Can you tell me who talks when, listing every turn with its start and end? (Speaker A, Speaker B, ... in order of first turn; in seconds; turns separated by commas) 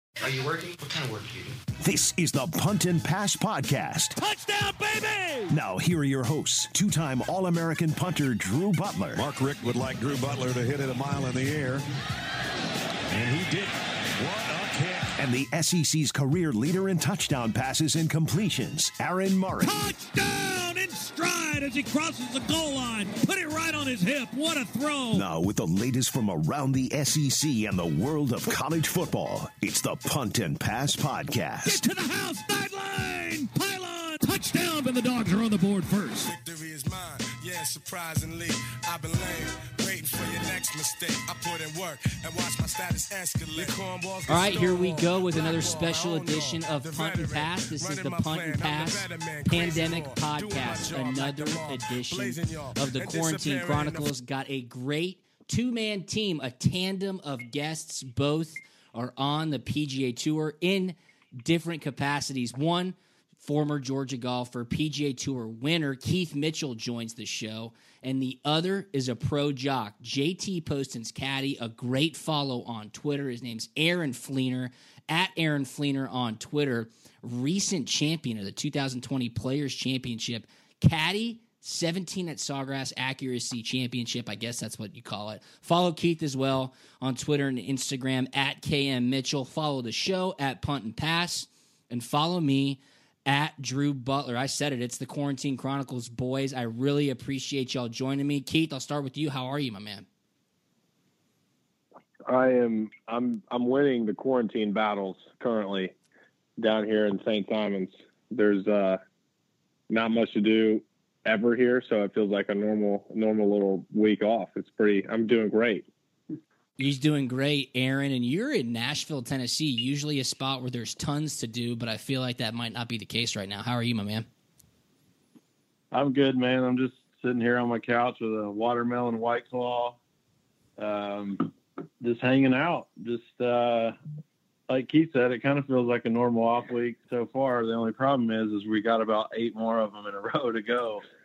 Speaker A: 0.9-1.3, Speaker B: 1.8-4.2, Speaker C: 4.2-5.6, Speaker B: 5.5-9.3, Speaker D: 9.2-11.8, Speaker A: 9.6-11.8, Speaker D: 13.1-13.7, Speaker A: 14.2-14.6, Speaker D: 14.2-15.0, Speaker B: 15.1-19.9, Speaker C: 19.6-25.3, Speaker B: 25.1-31.9, Speaker C: 31.6-36.3, Speaker E: 36.2-54.1, Speaker F: 44.3-100.0, Speaker G: 102.3-105.9, Speaker G: 106.6-109.0, Speaker G: 109.9-115.9, Speaker F: 116.8-124.3, Speaker H: 125.9-130.0, Speaker H: 130.8-134.0, Speaker H: 134.7-141.0